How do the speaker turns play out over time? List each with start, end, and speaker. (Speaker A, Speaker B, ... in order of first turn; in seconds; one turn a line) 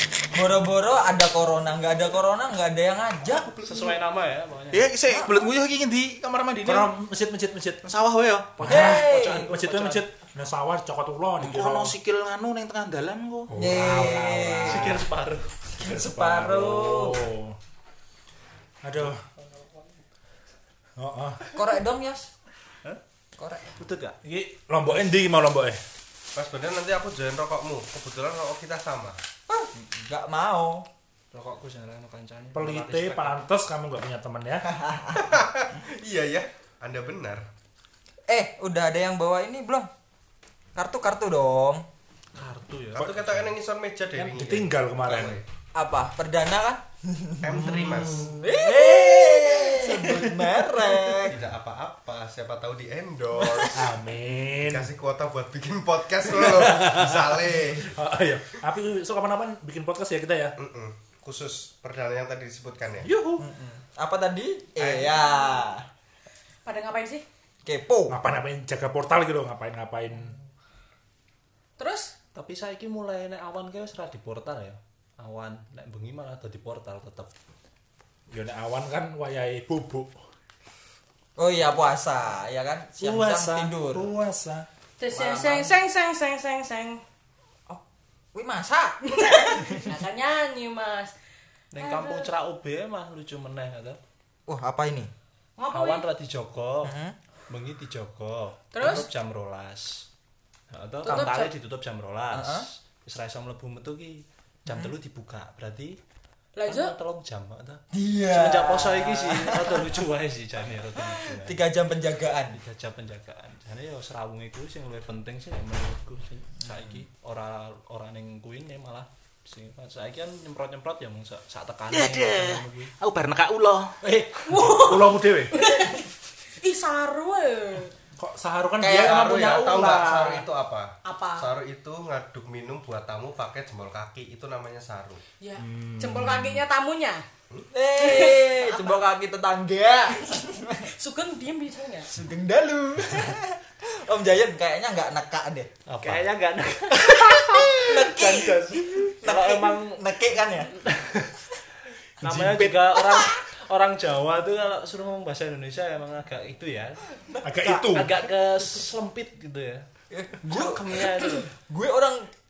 Speaker A: 0.3-3.5
Speaker B: 3.5-3.9
Speaker C: 3.6-4.9
Speaker D: 4.7-6.9
Speaker E: 6.7-7.8
Speaker D: 7.8-8.7
Speaker E: 8.6-11.9
Speaker A: 8.7-9.5
Speaker C: 8.7-10.0
Speaker D: 11.4-14.5
Speaker E: 13.5-14.8
Speaker A: 13.6-15.0
Speaker C: 14.6-15.5
Speaker A: 15.8-17.3
Speaker E: 15.8-17.6
Speaker E: 18.8-19.2
Speaker C: 19.0-19.8
Speaker E: 21.0-21.4
Speaker A: 21.5-22.3
Speaker A: 23.4-23.7
Speaker C: 23.8-24.2
Speaker E: 24.2-25.8
Speaker B: 26.4-29.2
Speaker A: 29.5-30.9
Speaker C: 31.3-33.4
Speaker E: 32.5-34.7
Speaker A: 34.9-35.1
Speaker B: 35.1-37.5
Speaker A: 38.3-39.9
Speaker A: 40.8-41.9
Speaker C: 42.4-43.5
Speaker B: 43.0-45.4
Speaker E: 43.0-43.2
Speaker E: 44.1-45.4
Speaker A: 45.8-51.4
Speaker B: 47.4-48.4
Speaker E: 47.5-48.4
Speaker E: 49.7-50.5
Speaker B: 51.2-53.9
Speaker A: 53.4-53.7
Speaker E: 53.7-54.9
Speaker B: 54.6-58.0
Speaker E: 56.3-60.6
Speaker B: 60.6-63.1
Speaker E: 63.0-63.5
Speaker A: 63.4-65.9
Speaker B: 64.8-65.2
Speaker F: 66.7-67.2
Speaker A: 67.6-68.2
Speaker E: 68.1-70.4
Speaker F: 71.8-72.1
Speaker C: 72.3-77.3
Speaker E: 78.3-80.1
Speaker A: 81.4-84.1
Speaker E: 83.0-84.7
Speaker F: 85.0-87.0
Speaker A: 85.1-85.8
Speaker A: 88.3-89.0
Speaker F: 89.0-91.2
Speaker C: 91.7-94.0
Speaker F: 91.8-92.3
Speaker A: 94.5-95.1
Speaker F: 95.6-96.1
Speaker C: 95.7-96.9
Speaker A: 96.8-97.2
Speaker C: 97.5-100.1
Speaker F: 98.7-99.1
Speaker C: 100.7-106.0
Speaker F: 101.0-101.5
Speaker A: 102.3-102.7
Speaker F: 106.6-107.0
Speaker C: 106.7-111.6
Speaker A: 107.9-109.9
Speaker A: 111.0-112.6
Speaker C: 112.5-122.9
Speaker D: 121.9-124.0
Speaker E: 124.0-125.6
Speaker F: 124.5-126.1
Speaker F: 126.6-127.9
Speaker E: 128.2-130.5
Speaker A: 128.8-129.3
Speaker B: 128.9-135.2
Speaker F: 131.1-131.5
Speaker F: 135.4-137.3
Speaker E: 135.6-136.6
Speaker A: 137.7-140.9
Speaker F: 137.9-139.0
Speaker F: 140.2-142.1
Speaker A: 142.1-145.7
Speaker D: 145.9-146.3
Speaker C: 146.0-150.2
Speaker F: 147.1-148.6
Speaker A: 147.8-150.8
Speaker C: 150.8-151.6
Speaker C: 152.2-159.9
Speaker E: 152.2-152.8
Speaker A: 157.3-157.8
Speaker E: 157.4-158.1
Speaker A: 160.1-162.3
Speaker C: 160.4-161.5